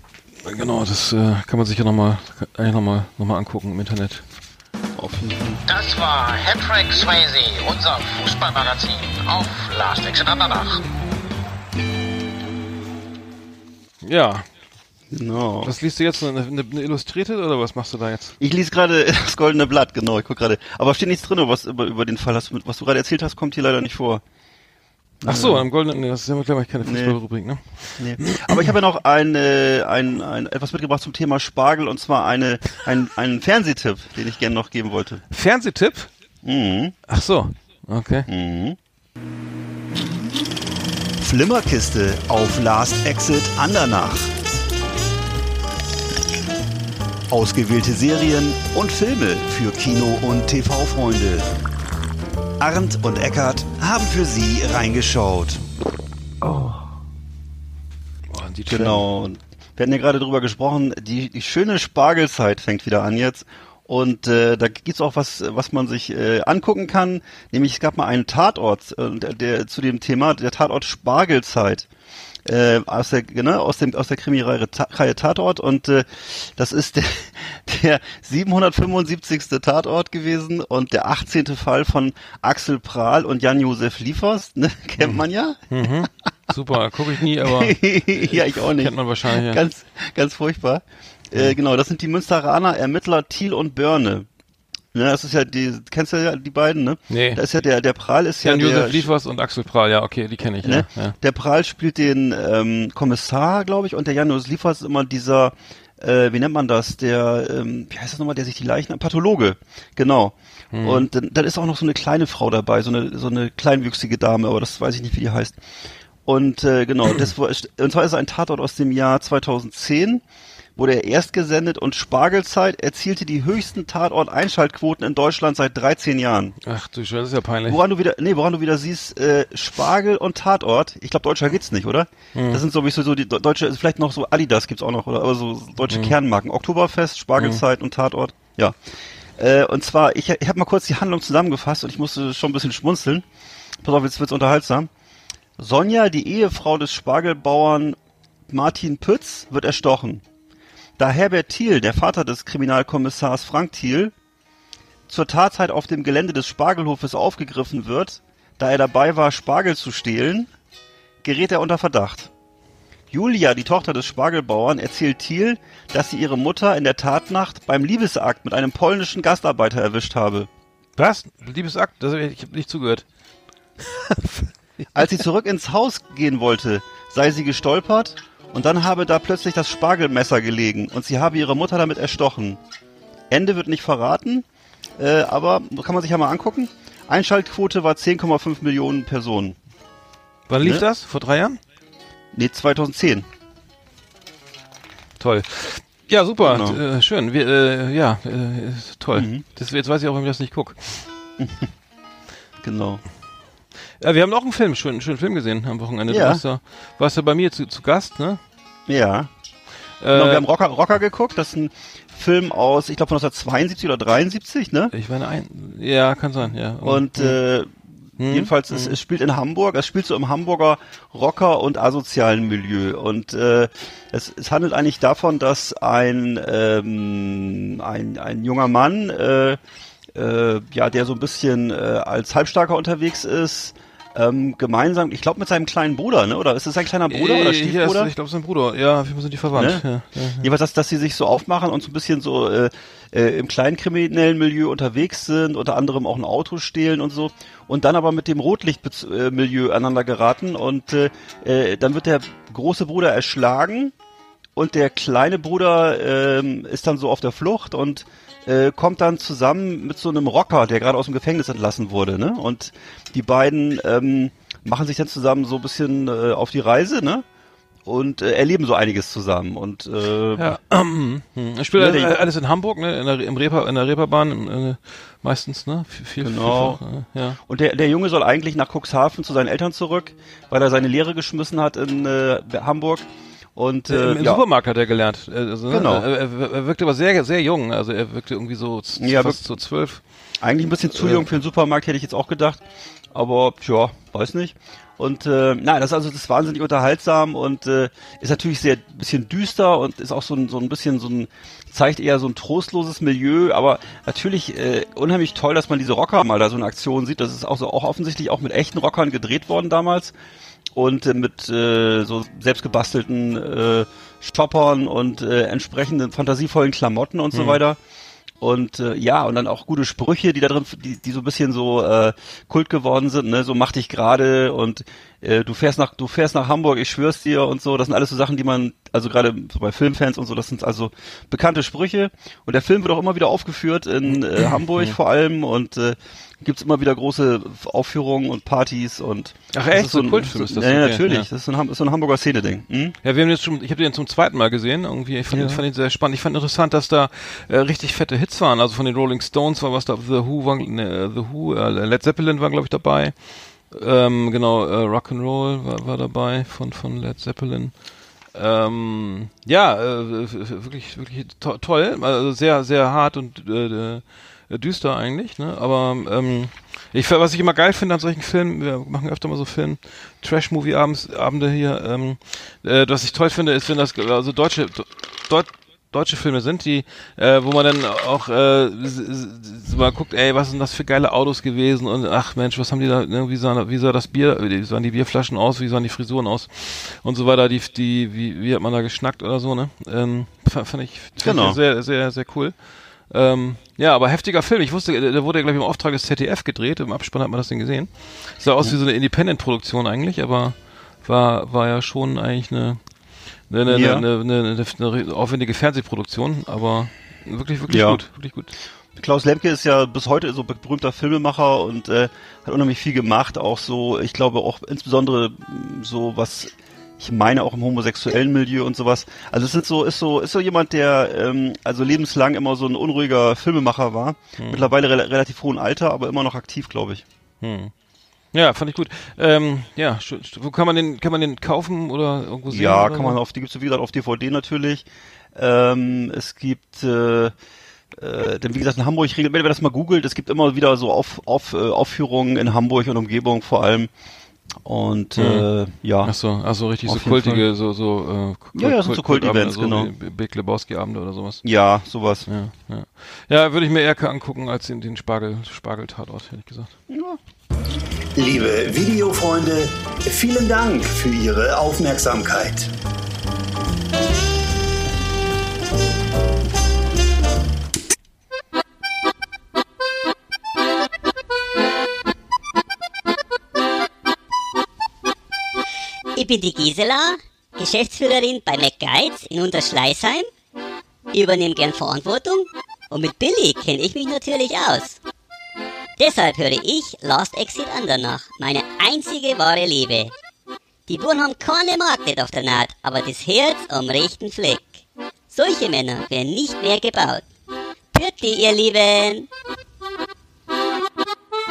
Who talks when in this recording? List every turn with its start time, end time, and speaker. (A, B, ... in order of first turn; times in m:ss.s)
0:00.4-0:04.2 A
0:05.0-0:05.6 B
0:05.7-0:10.9 C
0:14.0-0:14.5 A
0:15.1-0:15.7 B
0:15.6-0:18.4 A
0:18.4-0:24.2 B
0:25.2-0:25.7 B
0:25.2-0:28.7 A
0:26.8-0:27.2 B
0:28.0-0:35.2 B
0:35.3-0:36.1 A
0:36.4-0:36.9 B
0:37.1-0:38.3 A
0:38.3-0:38.8 B
0:41.2-0:44.3 D
0:47.3-0:51.5 D
0:52.6-0:55.6 D
0:58.3-0:59.0 A
0:58.7-1:11.9 B
1:12.4-1:26.1 B
1:25.0-1:29.6 A
1:27.4-1:34.3 B
1:34.9-1:39.1 B
1:37.1-1:37.4 A
1:38.4-1:41.2 A
1:40.6-1:55.6 B
1:50.7-1:51.1 A
1:56.2-2:00.2 B
2:00.8-2:06.5 B
2:06.6-2:07.8 A
2:07.7-2:18.8 B
2:12.3-2:12.6 A
2:15.9-2:16.1 A
2:19.4-2:23.2 B
2:23.8-2:24.9 B
2:25.6-2:28.0 B
2:28.5-2:30.2 B
2:31.0-2:34.1 B
2:35.1-2:40.5 B
2:41.2-2:42.3 B
2:43.1-2:50.5 B
2:51.0-2:53.0 A
2:54.2-2:54.4 A
2:54.9-3:02.6 B
3:03.3-3:04.4 B
3:05.0-3:09.6 B
3:10.5-3:11.6 A
3:12.3-3:13.3 B
3:15.2-3:21.1 A
3:16.4-3:16.8 B
3:19.1-3:19.4 B
3:21.4-3:21.7 B
3:22.6-3:23.0 B
3:24.0-3:28.4 A
3:26.1-3:26.4 B
3:28.9-3:29.3 B
3:30.0-3:30.4 A
3:30.1-3:34.9 B
3:34.9-3:37.4 A
3:36.8-3:49.6 B
3:38.2-3:39.0 A
3:50.1-3:58.1 B
3:57.1-4:00.5 A
3:59.5-3:59.8 B
4:00.4-4:13.9 B
4:14.6-4:27.2 B
4:27.8-4:30.6 B
4:30.4-4:37.4 A
4:31.7-4:32.2 B
4:36.2-4:36.8 B
4:37.4-4:44.4 B
4:43.9-4:50.0 A
4:45.7-4:46.0 B
4:49.0-4:49.4 B
4:50.4-5:10.1 B
4:50.9-4:51.3 A
5:10.7-5:17.8 B
5:17.3-5:17.6 A
5:18.4-5:42.9 B
5:34.1-5:34.9 A
5:39.5-5:41.3 A
5:43.0-5:53.1 A
5:45.3-5:45.6 B
5:53.7-5:57.7 A
5:58.3-6:32.5 A
6:31.2-6:31.6 B
6:33.1-6:42.8 A
6:43.5-6:48.5 A
6:43.7-6:44.0 B
6:47.7-6:48.0 B
6:48.9-7:07.0 B
7:04.4-7:04.7 A
7:07.4-7:07.7 A
7:08.3-7:13.2 A
7:12.5-7:17.3 B
7:17.9-7:23.9 B
7:24.6-7:26.2 B
7:25.2-7:25.5 A
7:26.0-7:31.4 A
7:26.8-7:27.5 B
7:28.5-7:29.9 B
7:31.4-7:32.3 B
7:32.2-7:36.7 A
7:36.9-7:37.2 B
7:38.2-7:42.7 D
7:56.1-8:00.3 E
8:01.1-8:05.0 E
8:06.0-8:10.1 E
8:10.9-8:17.2 E
8:17.9-8:19.3 E